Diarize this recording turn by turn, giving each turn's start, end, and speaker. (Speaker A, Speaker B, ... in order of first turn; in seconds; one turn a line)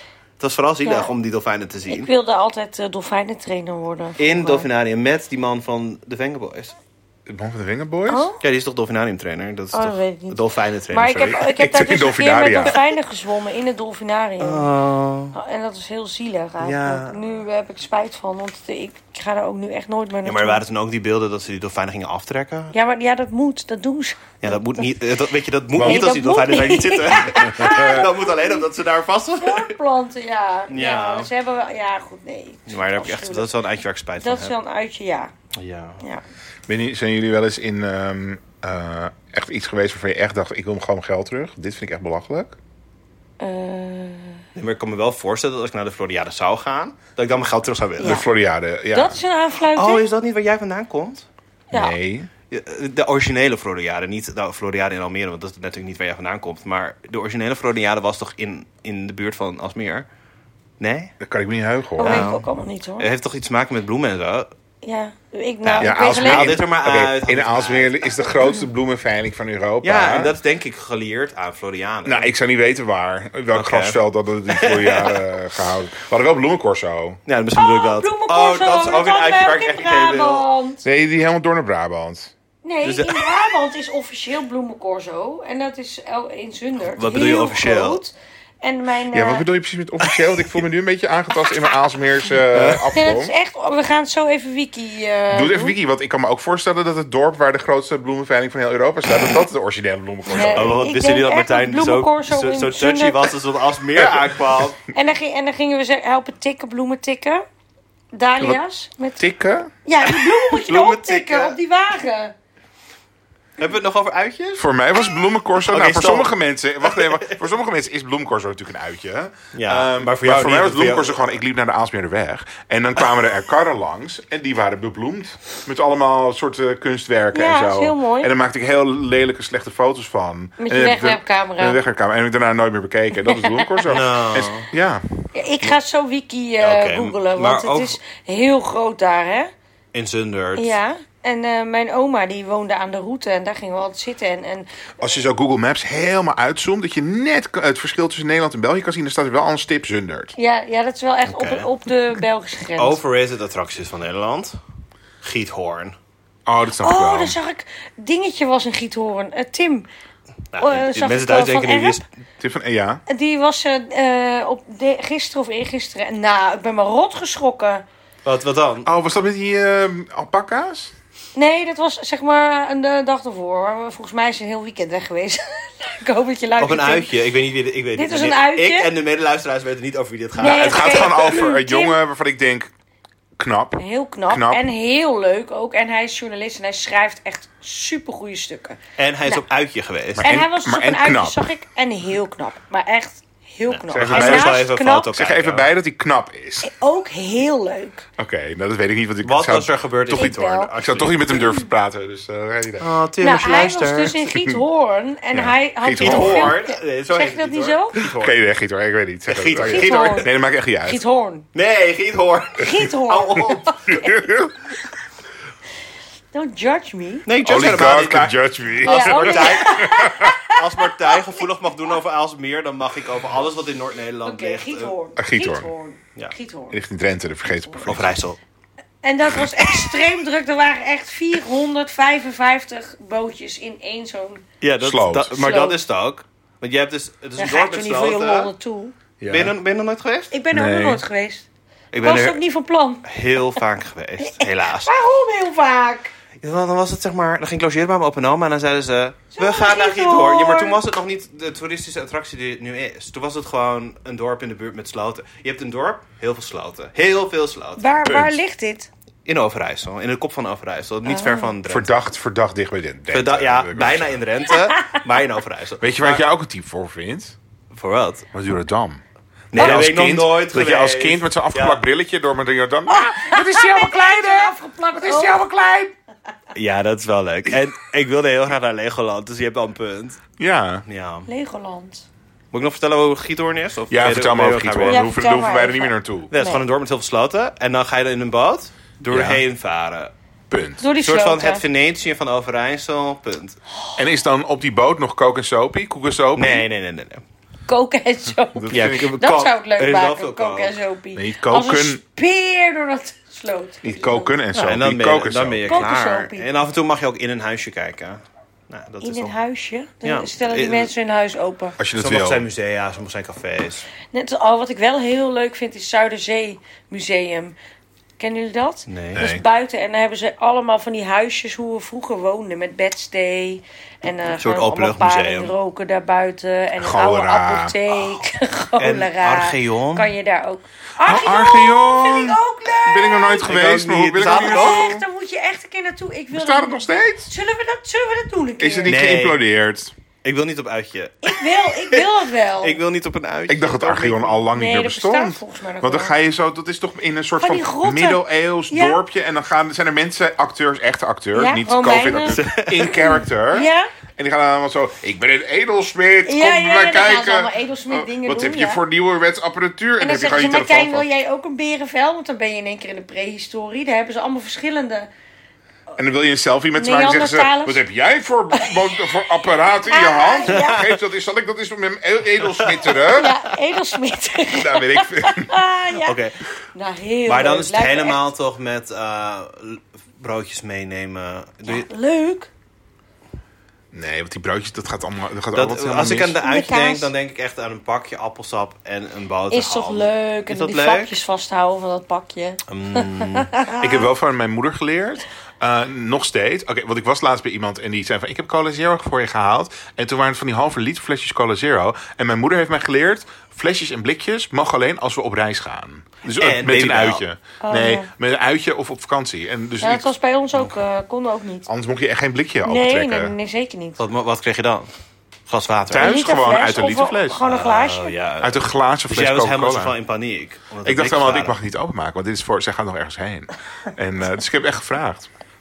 Speaker A: 0.4-2.1
Speaker B: 0.8-1.1
Speaker B: 1.9-4.7
Speaker A: 4.2-6.8
Speaker C: 7.3-8.3
Speaker B: 8.1-8.4
Speaker A: 8.4-11.5
Speaker B: 9.7-10.4
Speaker B: 10.9-14.7
Speaker C: 11.5-12.8
Speaker A: 14.4-15.4
Speaker B: 15.3-20.6
Speaker A: 16.6-17.2
Speaker A: 20.2-22.7
Speaker B: 22.7-24.9
Speaker A: 24.4-29.7
Speaker C: 25.8-26.1
Speaker B: 25.8-28.6
Speaker C: 27.5-28.1
Speaker B: 29.4-33.5
Speaker A: 30.7-31.3
Speaker A: 32.7-34.5
Speaker B: 34.2-35.3
Speaker A: 35.5-36.0
Speaker C: 36.7-42.6
Speaker B: 43.4-44.4
Speaker A: 44.5-48.2
Speaker B: 48.0-48.3
Speaker C: 48.0-49.2
Speaker B: 48.9-50.1
Speaker A: 49.8-51.3
Speaker C: 51.7-52.3
Speaker A: 52.5-60.1
Speaker A: 60.8-61.1
Speaker C: 61.2-62.3
Speaker B: 62.0-63.1
Speaker A: 62.0-62.5
Speaker A: 63.0-64.5
Speaker B: 64.8-66.6
Speaker A: 65.6-68.1
Speaker C: 65.8-70.3
Speaker A: 69.8-72.3
Speaker C: 72.0-77.2
Speaker A: 73.5-75.3
Speaker A: 77.3-80.5
Speaker B: 77.6-80.8
Speaker C: 80.8-82.3
Speaker B: 82.6-89.5
Speaker A: 82.8-83.3
Speaker A: 87.0-88.0
Speaker C: 89.1-93.3
Speaker A: 92.5-92.9
Speaker B: 92.9-95.8
Speaker C: 95.3-100.8
Speaker B: 100.3-103.3
Speaker A: 100.4-104.8
Speaker C: 104.0-104.6
Speaker B: 104.9-107.5
Speaker B: 108.1-109.2
Speaker C: 109.2-109.7
Speaker B: 109.8-112.3
Speaker A: 110.1-111.6
Speaker A: 113.6-114.7
Speaker C: 114.6-135.7
Speaker A: 115.7-117.4
Speaker A: 119.5-121.2
Speaker B: 127.3-128.3
Speaker B: 130.6-131.8
Speaker B: 133.2-133.9
Speaker A: 133.9-134.7
Speaker B: 135.3-139.5
Speaker A: 136.6-138.0
Speaker A: 139.9-140.8
Speaker B: 140.6-144.8
Speaker C: 145.0-150.3
Speaker B: 150.4-153.0
Speaker A: 151.3-151.7
Speaker A: 152.8-154.6
Speaker A: 155.2-155.9
Speaker C: 156.5-157.4
Speaker B: 156.8-159.9
Speaker A: 160.5-162.1
Speaker B: 160.6-162.0
Speaker C: 162.4-163.0
Speaker B: 163.1-167.8
Speaker A: 168.2-168.9
Speaker C: 168.8-170.9
Speaker B: 171.3-177.1
Speaker A: 176.6-181.4
Speaker B: 177.9-178.9
Speaker B: 180.4-182.0
Speaker C: 180.4-182.7
Speaker C: 183.4-184.7
Speaker B: 183.8-189.4
Speaker A: 189.0-190.3
Speaker C: 190.2-191.5
Speaker B: 190.2-195.1
Speaker A: 193.7-195.7
Speaker C: 193.9-196.7
Speaker B: 196.6-198.1
Speaker C: 198.2-202.9
Speaker A: 199.2-201.6
Speaker B: 200.1-200.7
Speaker A: 202.8-204.2
Speaker B: 203.2-208.0
Speaker C: 204.3-204.6
Speaker C: 205.3-206.6
Speaker A: 206.0-208.4
Speaker C: 208.1-211.0
Speaker A: 209.3-210.3
Speaker B: 209.6-210.3
Speaker B: 210.8-211.5
Speaker A: 211.5-213.8
Speaker B: 212.6-214.2
Speaker C: 213.9-214.6
Speaker B: 216.3-217.3
Speaker A: 217.3-224.9
Speaker C: 217.4-220.3
Speaker B: 218.8-221.4
Speaker B: 224.2-226.8
Speaker C: 225.2-225.7
Speaker C: 226.7-228.2
Speaker A: 227.8-228.4
Speaker B: 229.0-234.4
Speaker A: 234.6-238.5
Speaker C: 234.8-235.3
Speaker B: 235.3-235.8
Speaker B: 237.4-238.9
Speaker C: 239.2-239.5
Speaker A: 239.3-240.3
Speaker B: 240.3-241.5
Speaker C: 240.5-241.0
Speaker A: 241.9-242.4
Speaker B: 242.0-243.1
Speaker A: 243.0-244.9
Speaker B: 244.2-246.1
Speaker A: 246.4-257.8
Speaker B: 249.3-250.8
Speaker B: 257.8-258.9
Speaker C: 258.1-258.4
Speaker A: 259.3-261.9
Speaker B: 261.1-261.5
Speaker C: 261.6-264.2
Speaker A: 263.1-266.2
Speaker C: 265.8-267.4
Speaker A: 267.7-268.3
Speaker C: 268.3-269.0
Speaker A: 269.5-271.8
Speaker C: 269.5-275.9
Speaker B: 272.9-275.5
Speaker A: 276.5-280.2
Speaker C: 280.4-280.8
Speaker A: 280.9-281.3
Speaker B: 281.3-282.1
Speaker A: 282.5-285.1
Speaker C: 283.9-286.3
Speaker B: 284.9-286.6
Speaker A: 286.3-290.1
Speaker C: 289.1-289.4
Speaker C: 290.5-290.8
Speaker B: 290.8-291.6
Speaker A: 291.0-293.6
Speaker C: 294.0-296.7
Speaker A: 296.4-297.2
Speaker B: 297.7-304.4
Speaker C: 298.6-299.1
Speaker A: 298.7-300.8
Speaker C: 301.1-302.0
Speaker C: 303.8-305.8
Speaker A: 304.5-309.4
Speaker B: 305.7-306.5
Speaker B: 309.0-311.8
Speaker A: 310.0-310.9
Speaker C: 311.8-312.4
Speaker A: 312.0-313.9
Speaker B: 314.1-317.6
Speaker B: 318.2-333.5
Speaker A: 318.9-319.2
Speaker C: 319.1-319.4
Speaker A: 324.3-325.5
Speaker C: 326.8-328.2
Speaker A: 328.8-330.1
Speaker C: 331.0-335.0
Speaker A: 333.4-335.0
Speaker B: 334.3-339.0
Speaker C: 336.3-337.3
Speaker C: 338.6-339.9
Speaker A: 338.9-339.4
Speaker A: 340.2-344.4
Speaker B: 341.2-342.8
Speaker C: 343.5-361.1
Speaker B: 344.5-346.1
Speaker B: 347.4-349.0
Speaker B: 351.4-353.9
Speaker A: 352.3-353.0
Speaker B: 356.3-358.8
Speaker B: 360.0-365.1
Speaker C: 366.0-373.4
Speaker B: 366.8-367.8
Speaker B: 368.5-368.9
Speaker B: 369.9-370.8
Speaker A: 370.5-370.9
Speaker A: 372.4-373.0
Speaker B: 373.1-376.2
Speaker C: 374.5-375.6
Speaker A: 376.0-376.4
Speaker B: 376.8-378.2
Speaker A: 377.3-381.9
Speaker B: 381.7-382.5
Speaker C: 383.9-386.4
Speaker A: 385.5-391.1
Speaker B: 386.4-387.1
Speaker B: 389.5-394.1
Speaker A: 392.7-393.5
Speaker C: 393.8-410.1
Speaker A: 406.4-407.2
Speaker B: 407.6-408.1
Speaker B: 409.8-411.7
Speaker C: 411.7-413.3
Speaker B: 412.6-414.0
Speaker A: 414.0-414.9
Speaker A: 415.5-416.1
Speaker C: 415.9-417.4
Speaker B: 416.0-418.2
Speaker A: 417.4-421.6
Speaker C: 418.4-419.9
Speaker C: 420.8-425.3